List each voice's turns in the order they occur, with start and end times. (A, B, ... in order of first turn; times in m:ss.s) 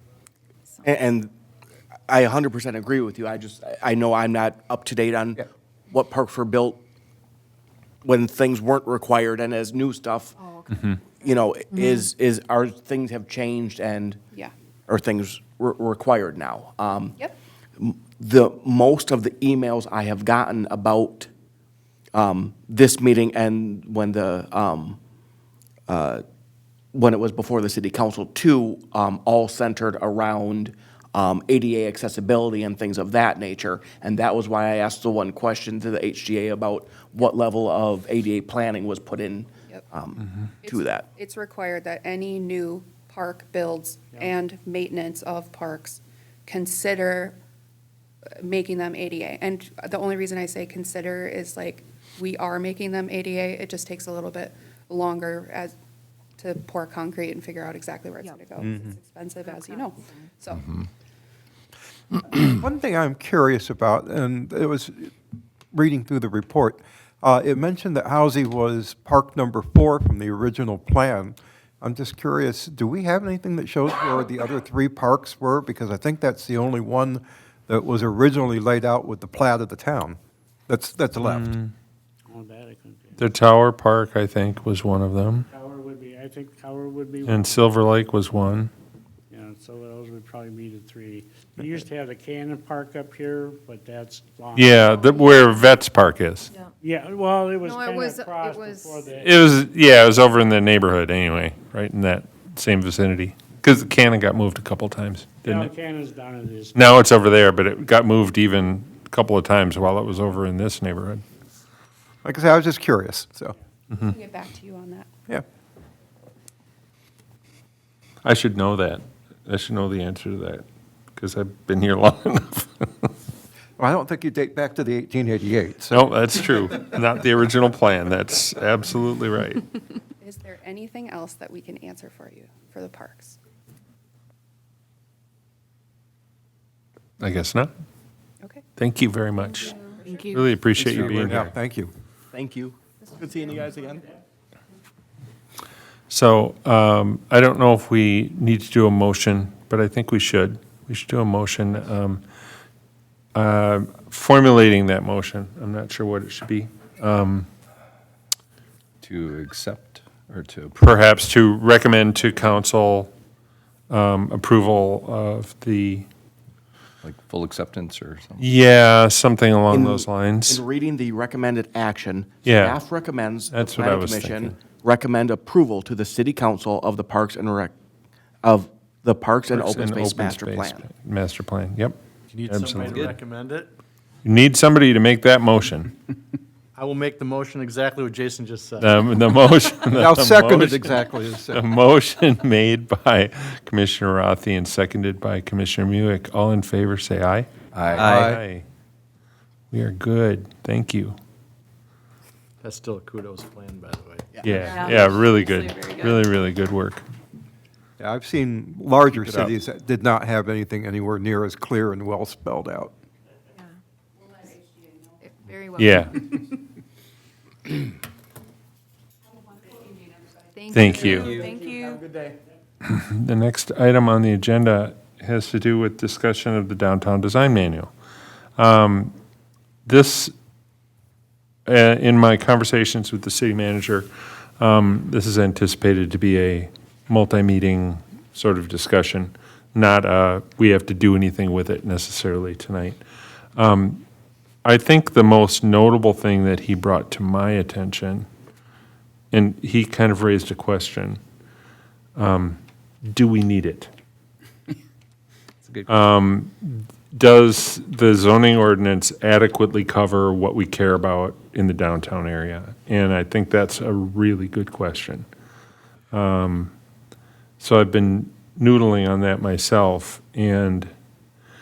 0:00.8-0:01.3 A
0:02.1-0:06.8 A
0:08.0-0:10.3 A
0:10.4-0:12.0 B
0:10.7-0:11.0 C
0:11.2-0:14.2 A
0:14.9-0:17.2 A
0:17.8-0:21.3 A
0:22.1-0:25.0 A
0:25.9-0:26.2 A
0:26.9-0:41.1 A
0:40.2-0:40.5 C
0:40.6-0:47.4 D
0:48.4-0:55.8 D
0:56.4-1:00.8 D
0:58.6-0:58.9 E
0:59.4-1:00.3 B
1:02.4-1:05.1 E
1:05.7-1:21.5 E
1:21.2-1:21.7 C
1:22.3-1:23.2 F
1:23.2-1:25.5 C
1:25.5-1:27.7 F
1:27.2-1:28.7 C
1:29.3-1:34.9 F
1:34.5-1:36.5 C
1:34.9-1:35.7 B
1:36.8-1:39.3 F
1:37.6-1:39.1 B
1:39.1-1:45.7 C
1:45.4-1:46.8 F
1:46.7-1:51.2 C
1:52.2-1:53.5 E
1:53.9-1:55.1 D
1:58.2-2:00.6 C
2:01.2-2:03.1 C
2:03.8-2:06.1 E
2:05.9-2:09.7 C
2:10.2-2:13.4 D
2:17.2-2:17.7 C
2:18.8-2:19.8 C
2:19.8-2:20.3 D
2:19.8-2:20.5 B
2:20.3-2:21.5 C
2:20.8-2:21.9 E
2:22.3-2:24.1 A
2:26.1-2:32.2 C
2:33.3-2:37.5 C
2:39.0-2:40.8 G
2:40.8-2:43.1 C
2:43.9-2:46.0 C
2:47.0-2:48.5 G
2:48.4-2:50.6 C
2:49.7-2:57.7 A
2:52.4-2:52.8 C
2:53.5-2:54.5 C
2:58.4-3:00.8 A
2:59.5-3:03.2 C
3:02.3-3:03.7 H
3:04.2-3:05.9 C
3:06.8-3:09.1 H
3:08.8-3:11.0 C
3:09.9-3:11.6 E
3:11.5-3:18.6 C
3:17.7-3:18.3 G
3:18.0-3:18.4 E
3:19.7-3:21.1 C
3:22.6-3:25.1 H
3:24.3-3:24.7 A
3:24.4-3:27.0 C
3:24.6-3:26.2 B
3:28.0-3:32.9 E
3:29.1-3:29.5 C
3:35.1-3:36.4 B
3:35.8-3:36.3 C
3:40.5-3:42.0 B
3:40.7-3:41.4 C
3:42.8-3:47.9 C
3:48.6-3:49.1 C
3:49.8-3:50.3 C
3:51.6-3:54.1 C
3:54.6-4:03.0 C
4:03.6-4:04.0 C
4:04.6-4:08.3 C
4:09.3-4:11.2 C
4:12.2-4:13.9 C
4:15.9-4:25.2 C
4:26.1-4:26.7 C
4:27.6-4:30.9 C